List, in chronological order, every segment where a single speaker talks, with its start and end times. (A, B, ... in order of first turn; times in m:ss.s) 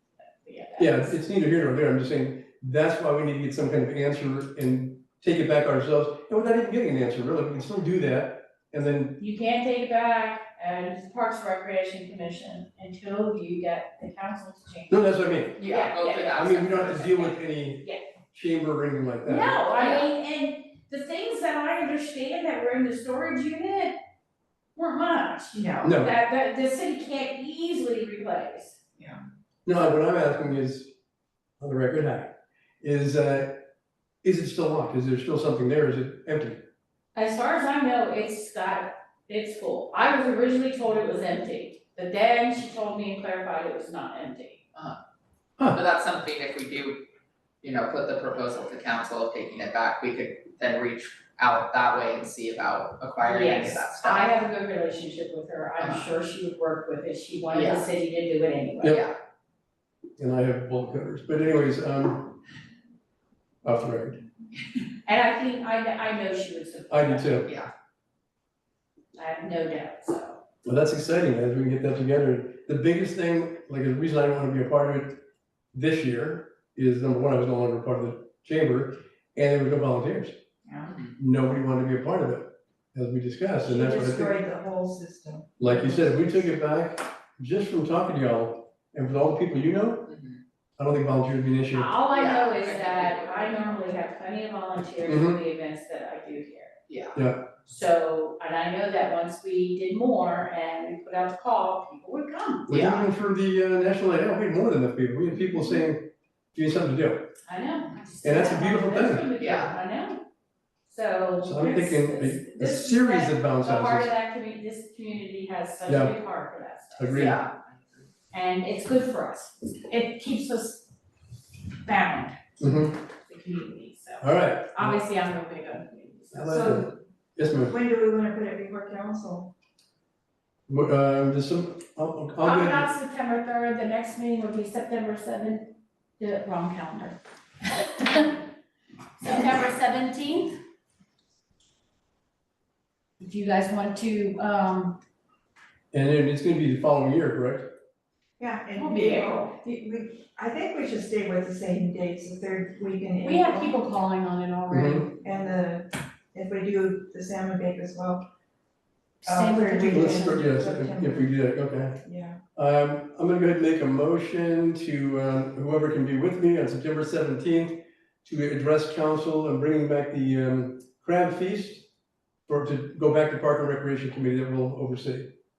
0:00.4-0:01.2 A
0:00.8-0:09.2 B
0:09.2-0:16.4 A
0:14.9-0:15.6 B
0:15.6-0:17.4 C
0:16.3-0:19.6 B
0:19.2-0:24.0 A
0:19.7-0:20.1 C
0:24.8-0:28.8 A
0:25.5-0:25.9 D
0:25.8-0:26.1 B
0:29.6-0:30.9 B
0:31.6-0:33.6 B
0:34.2-0:36.6 B
0:37.1-0:44.6 A
0:45.7-0:47.0 C
0:47.6-0:54.4 C
0:53.2-0:59.0 A
0:55.8-0:56.1 C
0:57.5-0:57.9 C
0:58.9-0:59.1 C
1:00.2-1:02.4 B
1:03.6-1:04.2 B
1:05.0-1:07.4 A
1:06.9-1:07.5 B
1:07.4-1:07.7 C
1:09.1-1:10.4 A
1:10.6-1:15.2 B
1:15.7-1:20.3 B
1:20.6-1:21.0 D
1:20.8-1:21.1 C
1:21.2-1:24.4 B
1:23.6-1:26.5 D
1:25.6-1:30.2 B
1:30.1-1:30.4 C
1:30.8-1:32.0 B
1:31.7-1:36.7 A
1:32.1-1:33.9 C
1:35.0-1:35.4 B
1:36.9-1:37.2 C
1:37.1-1:37.5 B
1:37.6-1:42.7 A
1:42.7-1:47.3 B
1:42.7-1:43.1 C
1:47.5-1:50.2 A
1:48.2-1:49.3 B
1:49.4-1:49.8 C
1:50.8-1:57.4 A
1:51.4-1:54.1 B
1:55.9-1:56.1 B
1:57.0-1:57.4 B
1:57.1-1:57.5 C
1:58.3-2:00.9 A
2:01.7-2:06.8 A
2:02.6-2:02.9 B
2:04.2-2:05.0 B
2:06.3-2:07.8 B
2:06.5-2:06.9 D
2:07.6-2:09.5 D
2:10.7-2:12.9 B
2:12.4-2:18.4 A
2:19.2-2:20.6 A
2:23.2-2:25.0 A
2:25.9-2:27.7 B
2:28.4-2:33.8 D
2:28.8-2:29.5 A
2:33.2-2:35.1 A
2:34.7-2:35.0 B
2:35.2-2:38.2 D
2:39.2-2:40.5 A
2:39.2-2:41.3 D
2:39.9-2:42.0 B
2:42.0-2:42.4 D
2:42.6-2:51.9 B
2:52.5-2:55.3 B